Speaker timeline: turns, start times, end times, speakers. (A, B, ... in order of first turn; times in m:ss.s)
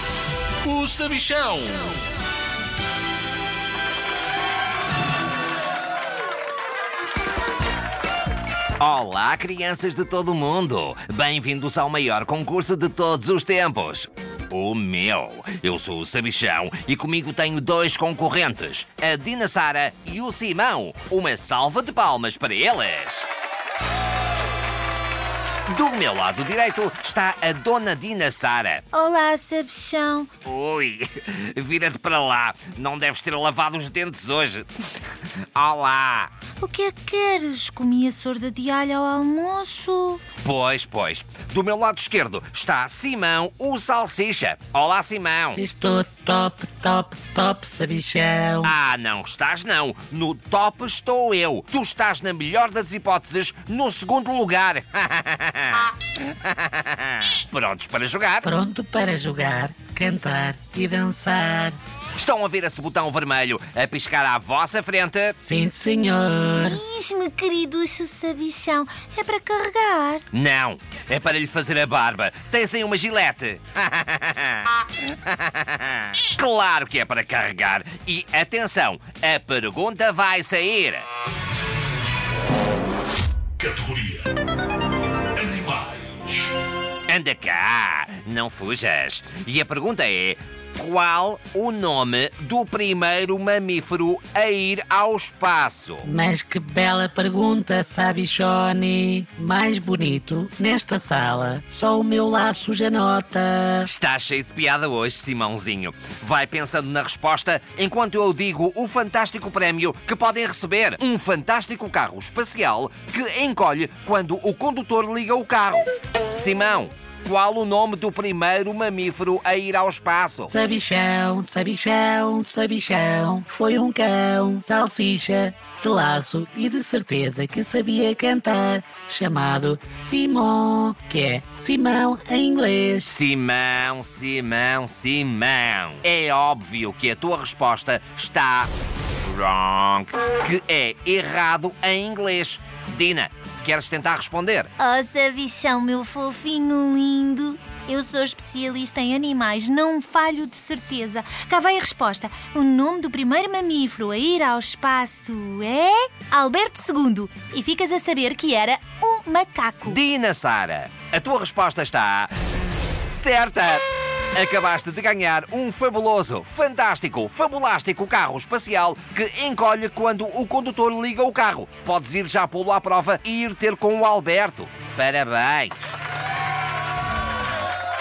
0:00.6-0:02.0 A
0:08.8-0:23.3 B
0:25.7-0:28.8 B
0:28.9-0:30.3 C
0:30.4-0:34.7 B
0:35.6-0:36.3 B
0:36.6-0:40.2 C
0:40.4-0:45.6 B
0:45.6-0:48.7 D
0:48.6-0:58.5 B
0:58.4-1:01.8 D
1:02.2-1:05.4 B
1:05.4-1:06.8 D
1:06.6-1:10.2 C
1:10.3-1:21.0 B
1:23.6-1:24.3 A
1:25.4-1:26.5 A
1:27.1-1:36.1 B
1:36.0-1:43.9 D
1:43.8-2:00.5 B
2:00.5-2:13.1 D
2:13.0-2:18.7 B
2:19.2-2:24.7 B
2:24.8-2:40.0 C
2:39.8-2:42.3 B
2:43.1-2:43.8 B
2:44.4-2:55.8 B